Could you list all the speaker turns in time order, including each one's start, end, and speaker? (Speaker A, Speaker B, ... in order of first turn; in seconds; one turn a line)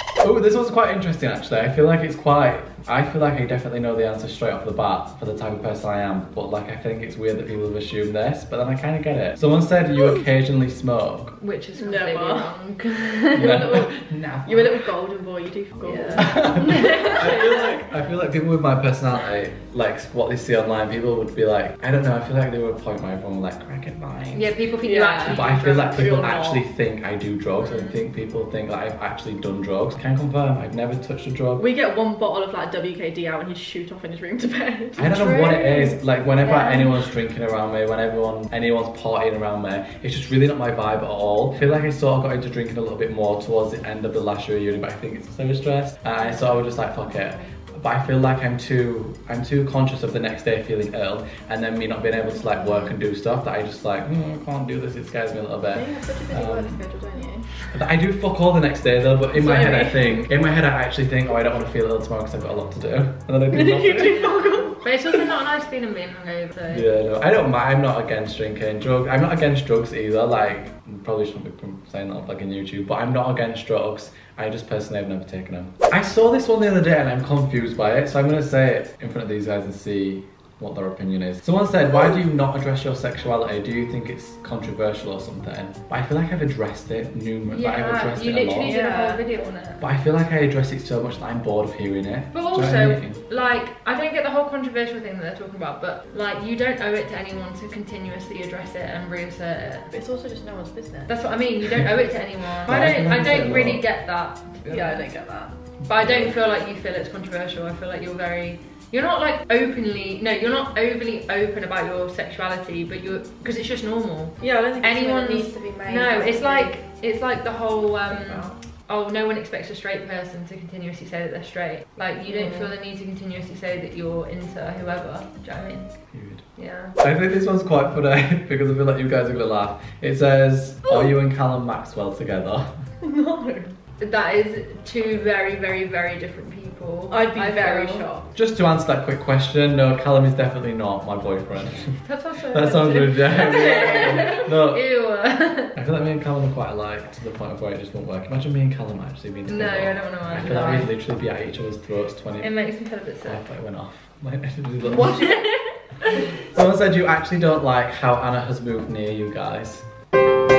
Speaker A: 0.2-11.3
Speaker B: 11.4-13.7
Speaker C: 11.8-12.5
Speaker C: 13.3-13.9
Speaker A: 13.3-14.9
Speaker C: 14.4-17.2
Speaker B: 15.8-17.3
Speaker A: 16.2-24.5
Speaker B: 24.3-25.9
Speaker C: 24.8-26.6
Speaker A: 25.2-31.7
Speaker C: 31.6-35.2
Speaker A: 35.0-56.8
Speaker B: 35.0-37.0
Speaker C: 55.7-57.5
Speaker A: 57.7-64.6
Speaker C: 59.3-60.2
Speaker C: 63.6-64.7
Speaker B: 64.3-66.8
Speaker A: 66.7-88.8
Speaker B: 87.5-89.8
Speaker C: 88.6-89.2
Speaker A: 89.8-93.2
Speaker B: 92.3-99.9
Speaker C: 99.9-101.2
Speaker B: 101.1-105.1
Speaker A: 102.6-103.9
Speaker C: 104.7-105.6
Speaker A: 105.8-106.3
Speaker B: 105.9-126.0
Speaker C: 114.4-116.8
Speaker C: 118.1-118.5
Speaker C: 122.3-122.6
Speaker A: 126.1-126.4
Speaker B: 126.5-127.0
Speaker A: 127.0-132.7
Speaker C: 133.0-133.7
Speaker B: 134.0-138.1
Speaker C: 137.1-138.3
Speaker A: 138.3-144.9
Speaker B: 142.0-145.8
Speaker A: 145.7-152.5
Speaker B: 149.5-150.9
Speaker B: 152.4-153.4
Speaker A: 153.2-155.4
Speaker C: 154.9-155.5
Speaker B: 155.1-155.4
Speaker A: 156.4-159.8